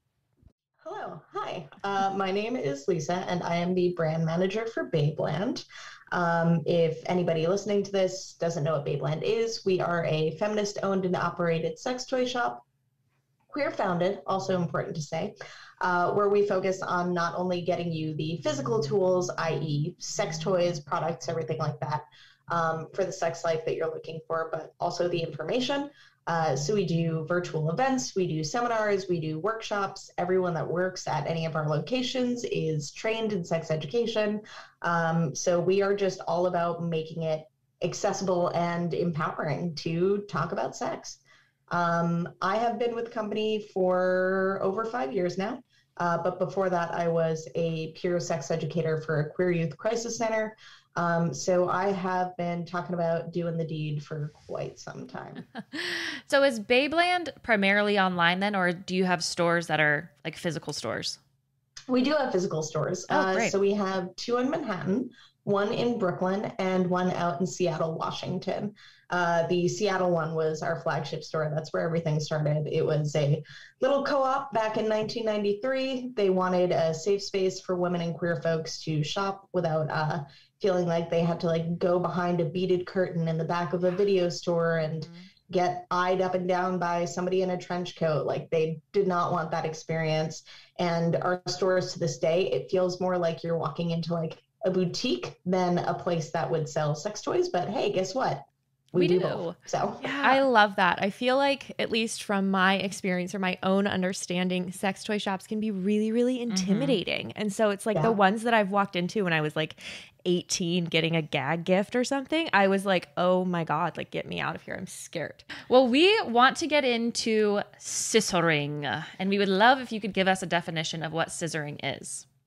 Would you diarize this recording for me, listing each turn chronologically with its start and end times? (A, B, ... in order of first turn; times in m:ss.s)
0:00.8-0:12.6 A
0:13.5-0:55.4 A
0:55.7-1:01.2 B
1:01.9-1:40.0 A
1:03.1-1:03.6 B
1:38.9-1:40.4 B
1:40.2-1:55.5 C
1:46.5-1:47.0 B
1:55.7-2:02.2 B